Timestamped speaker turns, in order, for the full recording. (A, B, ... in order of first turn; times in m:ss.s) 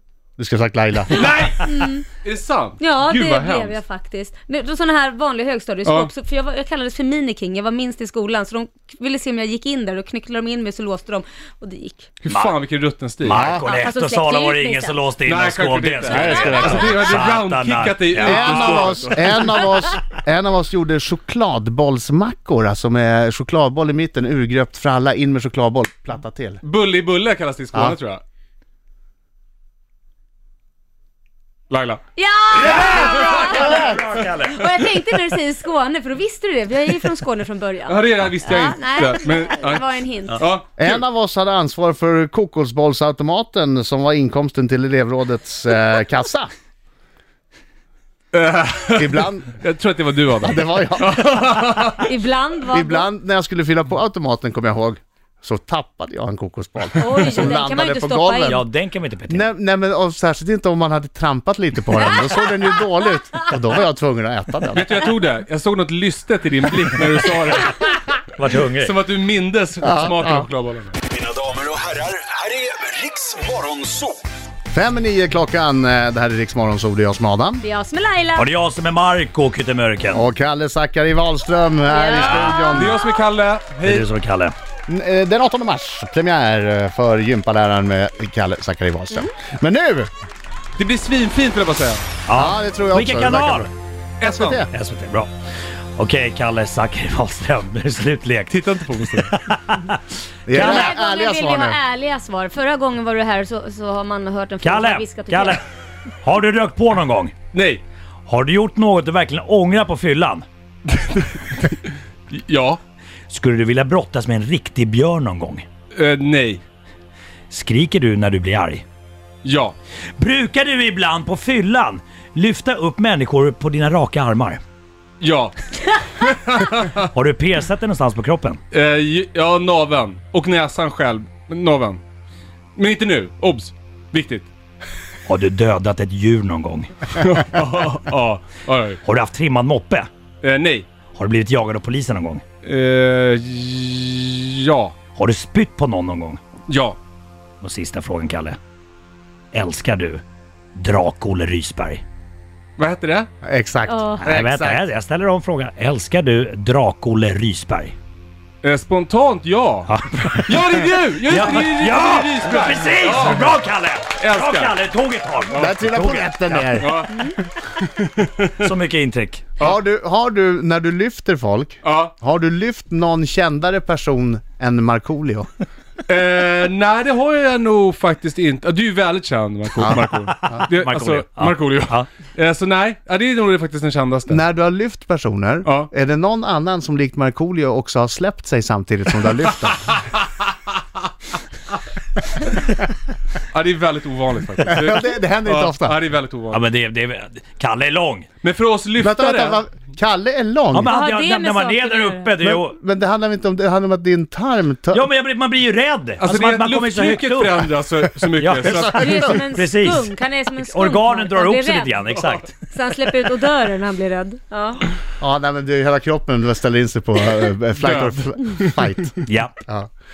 0:00.4-0:01.4 A
0:01.1-0:01.6 B
0:01.2-0:01.5 C
0:01.6-0:02.0 D
0:02.2-0:03.8 B
0:02.8-0:12.1 D
0:05.8-0:06.1 B
0:12.2-0:13.5 B
0:12.3-0:12.5 C
0:13.2-0:19.6 C
0:13.3-0:13.6 A
0:13.6-0:15.0 D
0:15.2-0:19.4 B
0:16.1-0:17.1 A
0:18.2-0:26.6 A
0:26.6-0:28.2 B
0:31.7-0:32.0 B
0:32.2-0:40.4 D
0:32.5-0:34.7 C
0:37.9-0:39.8 B
0:40.4-0:41.0 B
0:40.8-0:46.5 A
0:48.3-0:52.1 B
0:48.9-0:49.5 A
0:50.4-0:51.5 A
0:52.0-0:53.1 D
0:52.7-0:58.6 A
0:57.0-0:58.6 D
0:58.4-0:59.4 C
0:59.3-1:05.1 A
1:02.0-1:02.5 D
1:04.7-1:08.0 B
1:08.3-1:08.9 C
1:08.7-1:11.0 B
1:09.8-1:10.4 A
1:11.5-1:14.1 E
1:14.7-1:17.6 A
1:17.6-1:18.5 D
1:18.4-1:20.2 C
1:20.1-1:23.0 A
1:21.9-1:23.0 D
1:22.7-1:24.1 B
1:23.8-1:24.5 C
1:24.9-1:30.1 A
1:30.8-1:32.0 B
1:32.2-1:33.7 C
1:32.3-1:34.7 A
1:34.2-1:34.6 B
1:34.7-1:35.3 C
1:36.0-1:40.9 C
1:38.5-1:39.4 B
1:40.4-1:41.8 A
1:40.5-1:45.6 D
1:44.6-1:45.6 C
1:46.2-1:47.3 C
1:47.5-1:47.8 B
1:48.2-1:50.4 C
1:50.9-1:52.8 B
1:53.3-1:55.6 C
1:55.9-1:56.6 B
1:57.5-1:58.8 C
1:59.4-1:59.8 B
2:00.2-2:04.6 C
2:05.2-2:07.0 B
2:07.1-2:08.6 C
2:08.7-2:12.0 B
2:12.8-2:14.5 B
2:15.3-2:16.9 C
2:17.1-2:19.0 B
2:19.0-2:20.1 C
2:20.4-2:20.9 B
2:21.1-2:22.4 C
2:22.6-2:24.9 B
2:25.2-2:26.4 C
2:26.7-2:27.0 B
2:27.6-2:28.6 C
2:29.5-2:30.2 C
2:30.7-2:32.0 C
2:32.8-2:33.3 B
2:33.4-2:34.8 A
2:33.8-2:34.2 D
2:34.2-2:38.0 C
2:38.6-2:43.5 B
2:39.9-2:46.8 C
2:44.2-2:44.8 B
2:45.5-2:47.1 A
2:46.8-2:48.7 B
2:48.6-2:49.5 C
2:49.6-2:55.5 A
2:51.8-2:52.1 B
2:56.0-3:04.4 B
2:59.8-3:02.1 C
3:04.3-3:09.9 A
3:05.6-3:05.9 B
3:13.5-3:16.6 B
3:14.7-3:16.0 A
3:16.5-3:18.3 C
3:18.4-3:19.6 B
3:19.0-3:20.9 A
3:20.7-3:22.8 C
3:20.9-3:22.3 D
3:22.4-3:25.0 A
3:24.9-3:27.7 C
3:26.2-3:29.4 B
3:28.3-3:32.6 C
3:28.8-3:34.8 D
3:35.2-3:39.9 A
3:37.8-3:38.9 B
3:39.2-3:39.6 C